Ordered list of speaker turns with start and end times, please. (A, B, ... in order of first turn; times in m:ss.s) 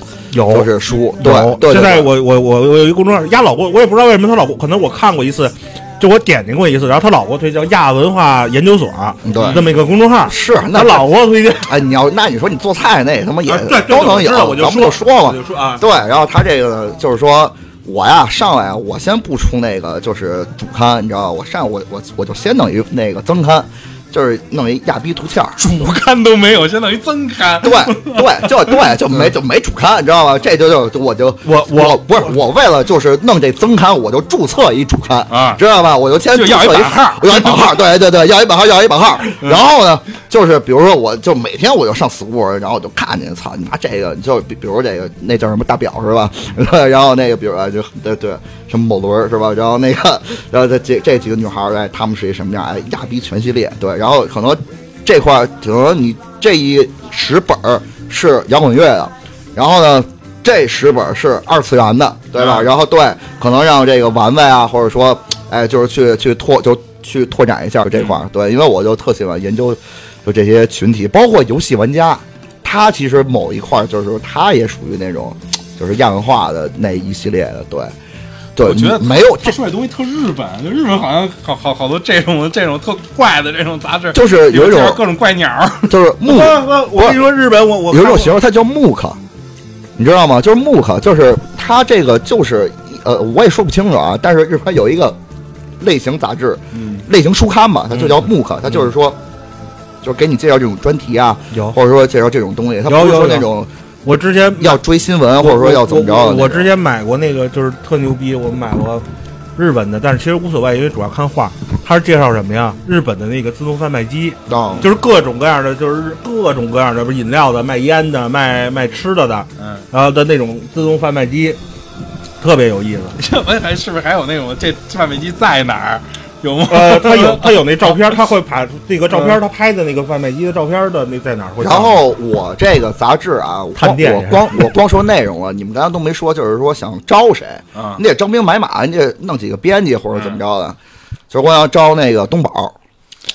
0:00.3-0:11.7 A
0:00.5-0:02.1 B
0:09.2-0:09.7 B
0:09.3-0:09.6 C
0:10.2-0:25.6 B
0:13.4-0:15.8 A
0:25.6-0:29.0 C
0:27.6-1:17.9 B
0:31.4-0:32.3 A
0:35.3-0:35.6 C
0:36.3-0:37.8 C
1:02.4-1:02.7 C
1:18.6-1:19.6 B
1:18.6-1:26.0 C
1:24.1-1:25.0 B
1:25.9-1:27.2 B
1:26.2-1:28.4 A
1:27.9-1:29.2 B
1:30.0-1:35.2 B
1:35.8-1:39.2 B
1:36.7-1:37.0 C
1:37.9-1:38.2 A
1:40.0-1:43.7 B
1:42.8-1:43.5 A
1:44.0-1:44.8 A
1:44.6-1:46.7 B
1:45.4-1:49.0 A
1:49.6-2:01.6 A
1:54.5-1:54.8 B
1:59.6-1:59.8 C
2:02.4-2:03.2 A
2:03.2-2:08.1 C
2:06.7-2:12.0 A
2:09.1-2:09.4 C
2:11.6-2:20.8 B
2:13.8-2:14.7 A
2:17.7-2:18.0 C
2:20.1-2:20.4 C
2:21.3-2:22.8 B